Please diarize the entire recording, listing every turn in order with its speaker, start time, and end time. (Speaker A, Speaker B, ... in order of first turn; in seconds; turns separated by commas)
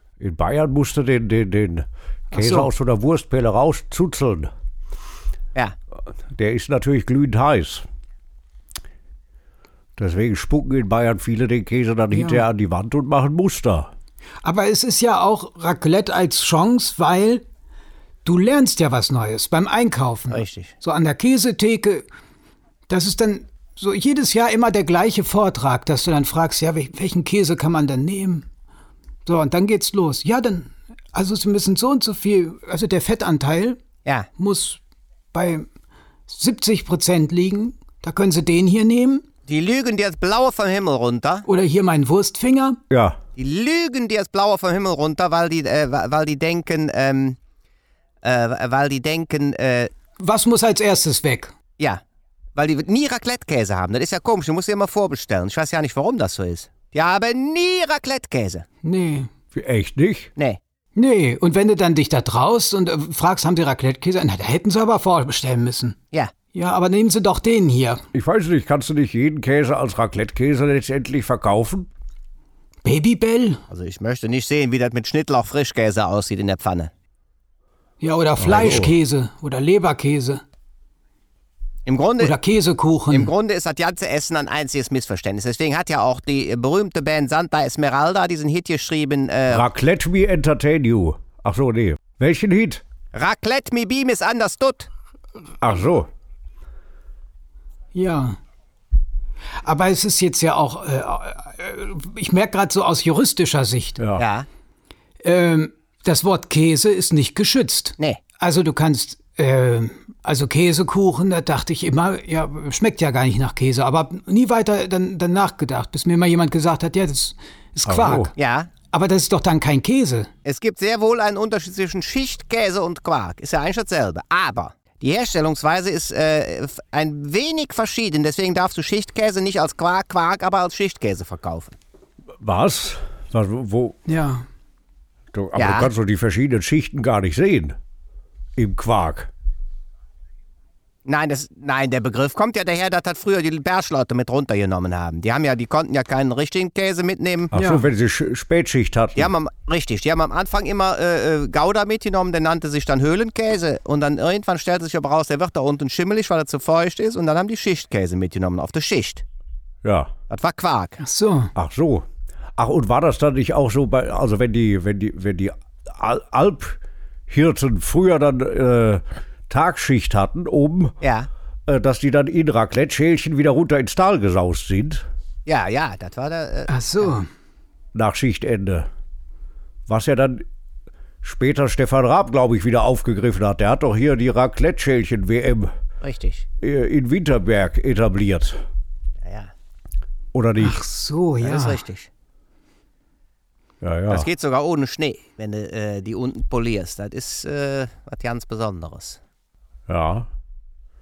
Speaker A: 0.2-4.5, Speaker B: 2.3-2.7, Speaker A: 6.3-7.8, Speaker A: 10.0-13.9, Speaker B: 12.1-12.4, Speaker B: 14.4-17.4, Speaker B: 18.2-22.1, Speaker C: 20.3-20.7, Speaker B: 22.9-28.4, Speaker B: 29.2-33.8, Speaker B: 34.4-34.8, Speaker B: 35.3-35.6, Speaker B: 36.3-39.2, Speaker C: 39.5-41.5, Speaker B: 41.5-42.8, Speaker A: 42.9-43.2, Speaker C: 43.4-47.4, Speaker C: 48.2-49.9, Speaker B: 50.2-51.5, Speaker C: 52.5-58.6, Speaker B: 58.8-59.3, Speaker A: 59.5-60.3, Speaker B: 61.0-66.0, Speaker B: 66.5-68.0, Speaker A: 68.1-71.9, Speaker B: 72.8-73.6, Speaker C: 73.7-76.9, Speaker B: 78.0-80.4, Speaker A: 78.4-78.9, Speaker C: 81.8-82.3, Speaker B: 82.2-83.3, Speaker C: 83.1-89.7, Speaker A: 89.5-92.8, Speaker C: 93.1-94.9, Speaker A: 95.6-96.1, Speaker B: 97.9-98.4, Speaker B: 99.6-104.0, Speaker A: 104.0-104.2, Speaker C: 104.2-104.5, Speaker B: 105.2-118.3, Speaker A: 117.8-118.3, Speaker C: 118.3-118.7, Speaker B: 118.9-120.3, Speaker C: 120.4-131.8, Speaker A: 132.4-134.0, Speaker B: 134.1-134.4, Speaker A: 135.3-137.8, Speaker C: 135.6-135.9, Speaker A: 138.6-139.3, Speaker C: 141.1-147.5, Speaker A: 147.5-149.3, Speaker B: 147.5-147.8, Speaker C: 149.2-159.2, Speaker A: 159.8-160.1, Speaker C: 160.3-161.0, Speaker B: 161.0-161.5, Speaker A: 161.6-162.1, Speaker A: 162.6-170.9, Speaker C: 171.0-171.3, Speaker A: 171.7-175.0, Speaker C: 175.4-177.1, Speaker B: 176.7-177.3, Speaker A: 177.9-178.9, Speaker A: 179.9-180.4, Speaker A: 181.2-185.7, Speaker C: 186.0-186.4, Speaker A: 186.6-188.6, Speaker C: 189.2-189.5, Speaker A: 190.3-190.8, Speaker B: 190.6-191.8, Speaker C: 191.4-192.1, Speaker A: 193.8-194.3, Speaker C: 194.1-199.2, Speaker A: 199.9-200.3